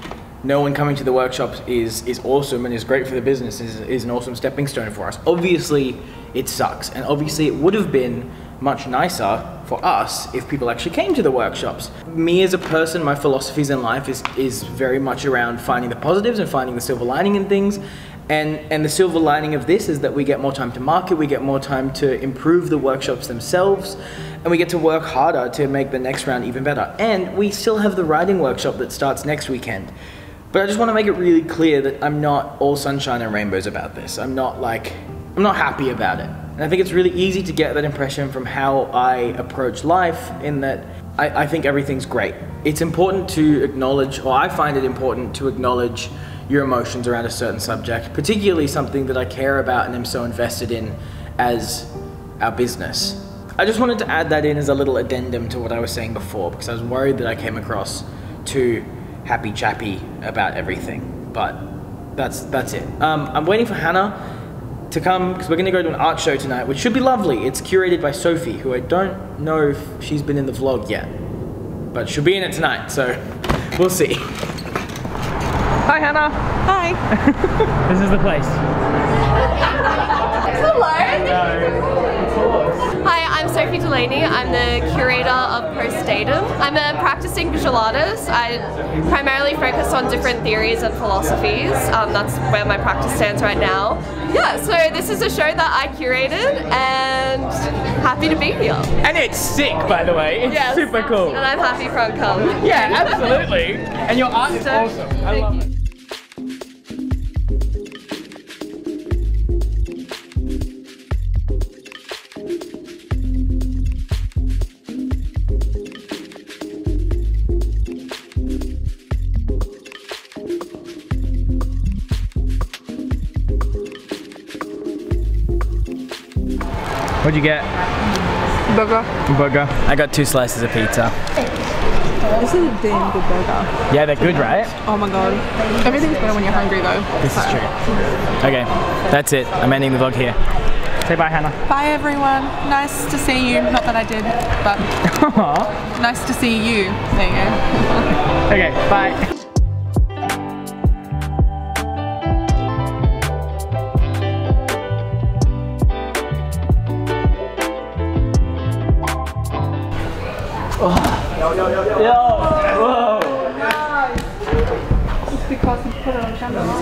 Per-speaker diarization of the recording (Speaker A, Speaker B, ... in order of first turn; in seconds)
Speaker A: 0.4-29.9, 30.5-64.2, 64.9-71.1, 71.9-74.3, 75.9-76.5, 77.1-78.6, 99.0-101.5, 102.4-105.6, 127.2-127.7, 129.2-131.2, 133.9-134.8, 137.2-137.7, 138.4-140.4, 141.0-141.6, 145.0-145.7, 148.4-149.3, 161.8-163.6
Speaker B: 76.7-77.0, 128.7-129.1, 132.3-133.7, 134.8-137.6, 141.7-144.9, 145.9-148.1, 166.2-166.7
Speaker C: 80.1-81.6, 83.0-98.9, 100.5-103.1